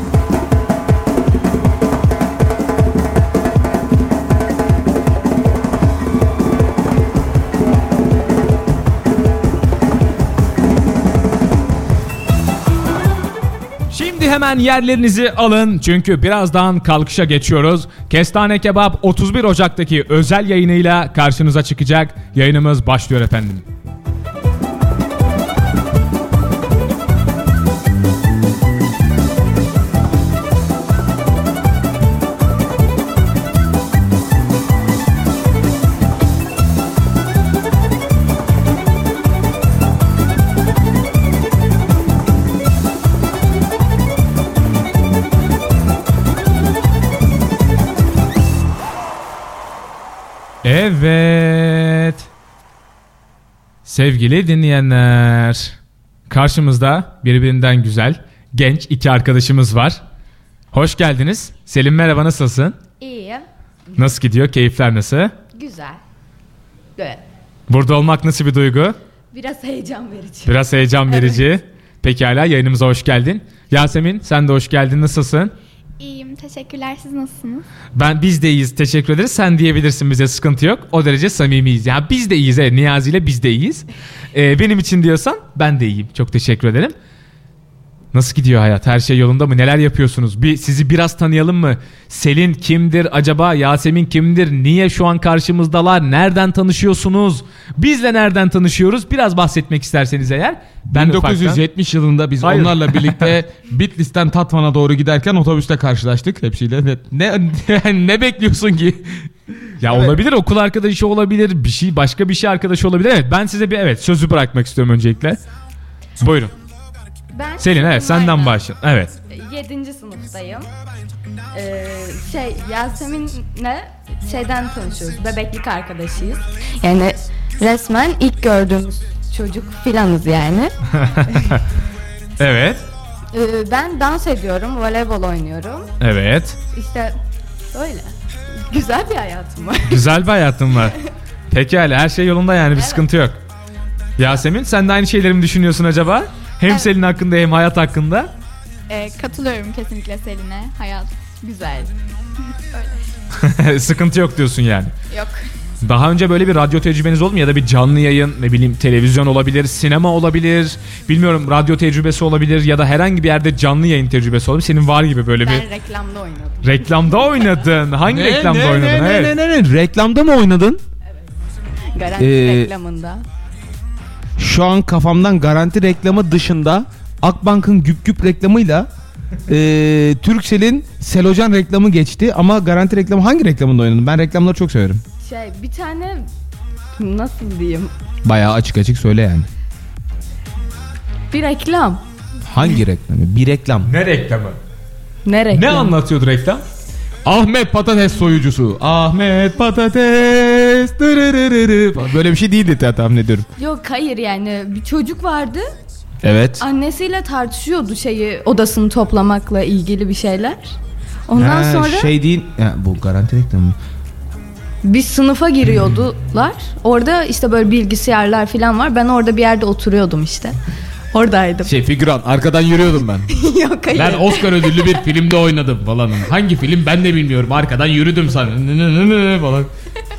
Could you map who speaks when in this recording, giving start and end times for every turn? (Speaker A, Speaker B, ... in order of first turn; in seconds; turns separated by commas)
Speaker A: 13.9-23.6, Speaker A: 50.6-52.3, Speaker A: 53.8-55.8, Speaker A: 56.3-60.0, Speaker A: 60.7-62.8, Speaker B: 63.0-63.5, Speaker A: 64.0-65.3, Speaker B: 65.5-66.0, Speaker A: 67.7-69.0, Speaker B: 69.3-70.5, Speaker A: 70.4-75.5, Speaker B: 71.1-71.4, Speaker C: 76.0-77.7, Speaker A: 77.9-86.9, Speaker A: 88.1-101.6, Speaker D: 100.9-109.3, Speaker A: 102.4-103.3, Speaker A: 109.8-115.4, Speaker D: 109.8-110.2, Speaker A: 116.2-116.5, Speaker B: 117.3-118.6, Speaker A: 117.6-119.1, Speaker B: 119.3-120.7, Speaker B: 121.5-130.7, Speaker A: 130.9-131.6, Speaker A: 132.4-132.9, Speaker B: 133.3-135.9, Speaker A: 136.0-136.6, Speaker B: 136.7-137.2, Speaker B: 137.7-140.0, Speaker A: 139.9-141.0, Speaker A: 141.5-143.4, Speaker B: 142.8-143.0, Speaker A: 144.2-148.3, Speaker C: 148.9-151.9, Speaker A: 153.4-154.9, Speaker C: 155.1-155.4, Speaker A: 155.8-165.7, Speaker B: 165.4-167.4, Speaker A: 166.6-169.3, Speaker D: 168.1-170.8, Speaker B: 171.9-173.2, Speaker D: 172.2-172.7, Speaker D: 174.4-178.9, Speaker D: 179.5-185.0, Speaker B: 185.2-186.3, Speaker B: 187.0-187.9, Speaker D: 188.2-189.5, Speaker B: 191.3-192.0, Speaker D: 192.5-193.9, Speaker A: 193.8-194.6, Speaker B: 195.2-195.9, Speaker A: 195.5-196.6, Speaker D: 197.2-203.5, Speaker B: 203.6-205.7, Speaker D: 206.2-206.6, Speaker B: 206.6-210.7, Speaker B: 211.3-212.1, Speaker D: 211.3-213.8, Speaker B: 214.8-220.6, Speaker B: 221.1-221.7, Speaker D: 221.7-223.3, Speaker B: 223.3-224.8, Speaker D: 223.9-229.7